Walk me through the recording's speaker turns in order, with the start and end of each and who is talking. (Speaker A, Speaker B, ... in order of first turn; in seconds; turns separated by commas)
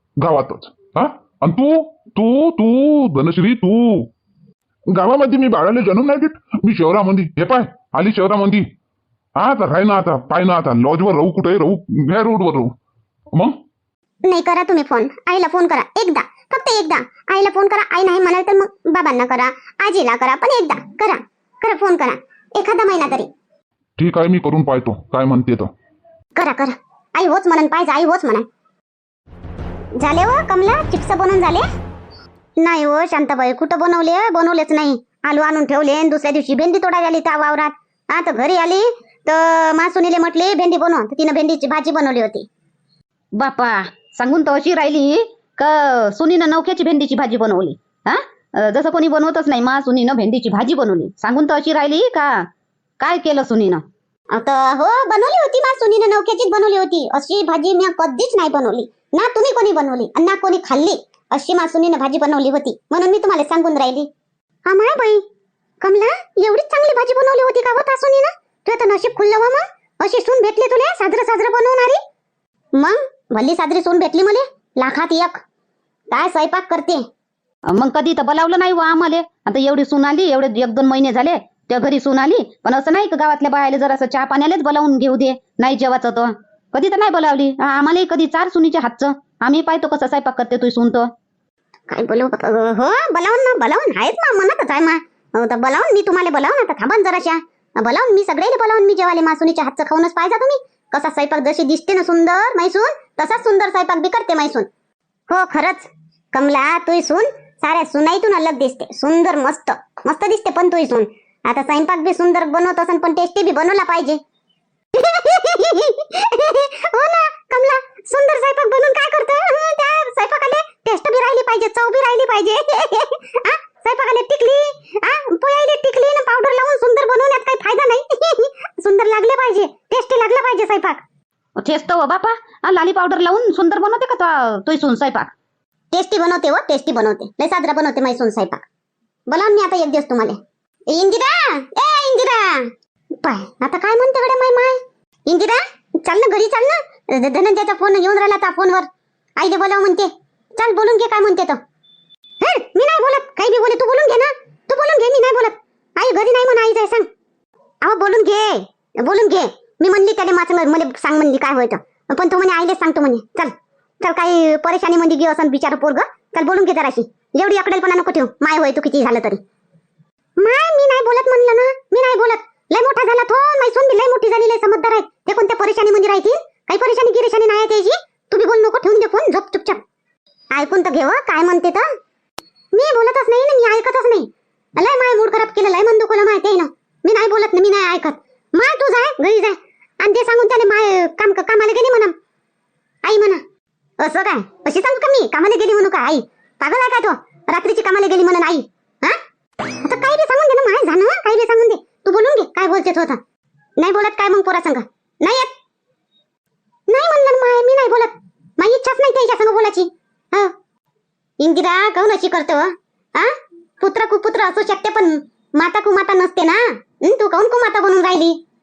Speaker A: 0.2-4.1, Speaker A: 4.9-8.7, Speaker A: 9.3-12.7, Speaker A: 13.3-13.6, Speaker B: 14.2-23.3, Speaker A: 24.0-25.7, Speaker B: 26.4-28.4, Speaker B: 30.0-31.6, Speaker B: 32.6-42.5, Speaker C: 43.4-52.5, Speaker C: 53.0-53.8, Speaker B: 54.3-64.1, Speaker B: 64.7-65.2, Speaker B: 65.8-72.0, Speaker B: 72.7-75.4, Speaker B: 76.1-77.0, Speaker C: 77.7-91.1, Speaker B: 91.9-104.7, Speaker B: 105.3-114.2, Speaker B: 114.9-131.0, Speaker C: 131.6-135.3, Speaker B: 135.9-138.6, Speaker B: 139.3-140.4, Speaker B: 140.9-142.7, Speaker B: 143.2-151.6, Speaker B: 152.4-157.1, Speaker B: 157.8-169.4, Speaker B: 170.4-179.8, Speaker B: 180.5-181.8, Speaker B: 182.7-192.1, Speaker B: 193.0-193.4, Speaker B: 194.0-199.2, Speaker B: 199.7-203.2, Speaker B: 203.8-205.5, Speaker B: 206.9-210.5, Speaker B: 211.4-218.4